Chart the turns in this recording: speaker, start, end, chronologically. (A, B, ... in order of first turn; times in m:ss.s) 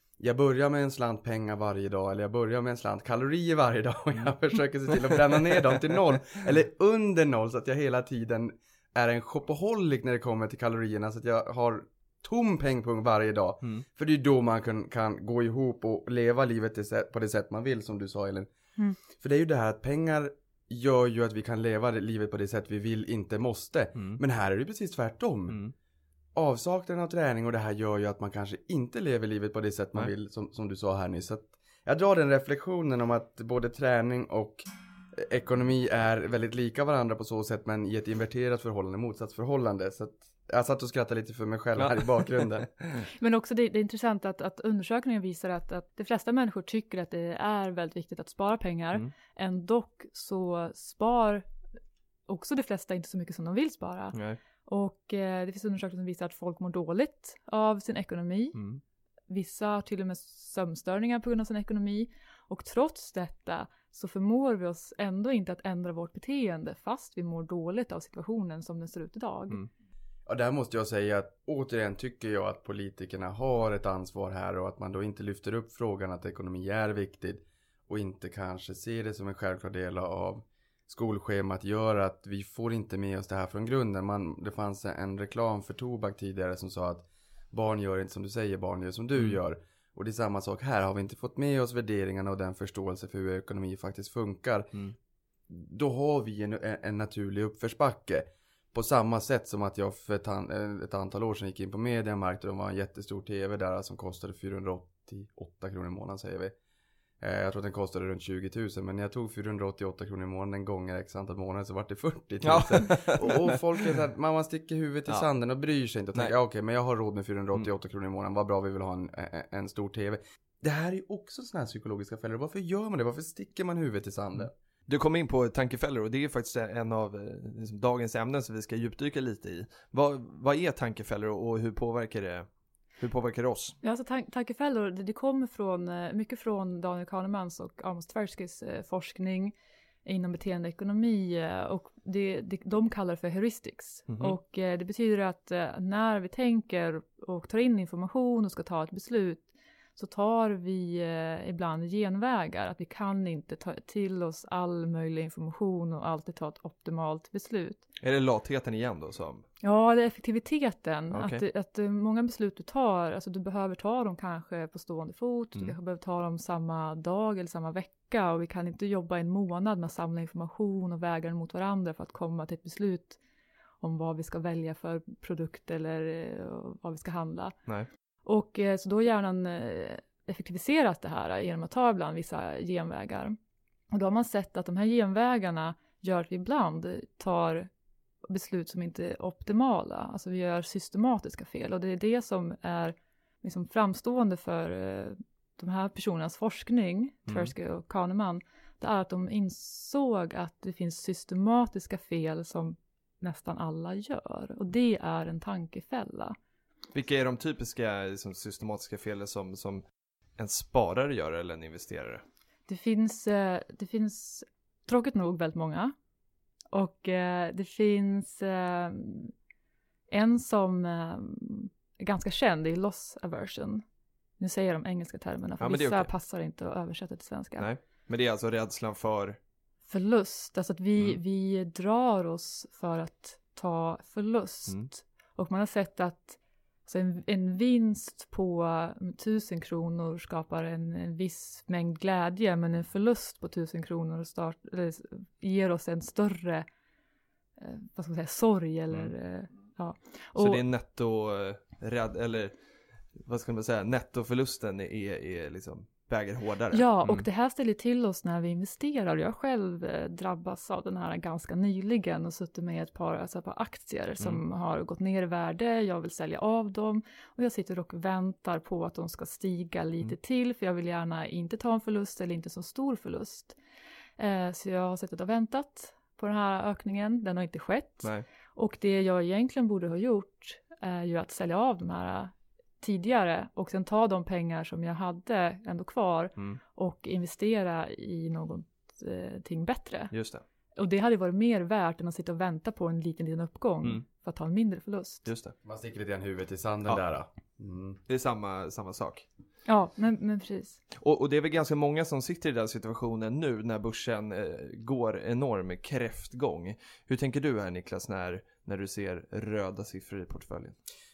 0:00.2-0:18.5 A
0:19.1-0:25.6 A
0:24.0-0:24.2 B
0:25.5-0:25.7 B
0:26.4-0:34.6 A
0:35.1-0:42.7 A
0:41.8-0:42.3 B
0:43.2-0:51.5 C
0:52.3-0:58.6 C
0:58.6-0:58.8 B
0:59.3-1:09.6 C
1:10.3-1:34.7 A
1:35.5-1:46.5 A
1:47.2-2:04.5 A
1:52.4-1:53.6 B
2:04.9-2:12.5 B
2:13.0-2:13.8 B
2:13.8-2:19.5 C
2:20.0-2:37.8 C
2:24.1-2:24.4 B
2:38.0-2:39.4 B
2:39.6-2:53.2 C
2:41.1-2:41.4 B
2:53.8-2:57.6 C
2:58.2-3:03.4 C
3:03.9-3:07.7 C
3:08.3-3:26.4 C
3:26.9-3:29.8 B
3:30.4-3:32.2 B
3:32.7-3:35.9 C
3:36.7-3:39.3 C
3:40.1-3:43.8 C
3:44.4-3:47.7 C
3:45.6-3:46.1 B
3:47.6-3:49.4 B
3:49.9-4:06.7 C
4:07.6-4:10.6 C
4:10.4-4:12.5 B
4:13.2-4:17.3 B
4:16.7-4:33.6 C
4:34.2-4:50.1 C
4:50.1-4:50.4 B
4:50.8-4:55.3 C
4:55.3-4:55.5 B
4:55.6-4:58.0 A
4:58.1-4:59.2 B
4:59.7-5:00.8 C
5:01.0-5:10.8 B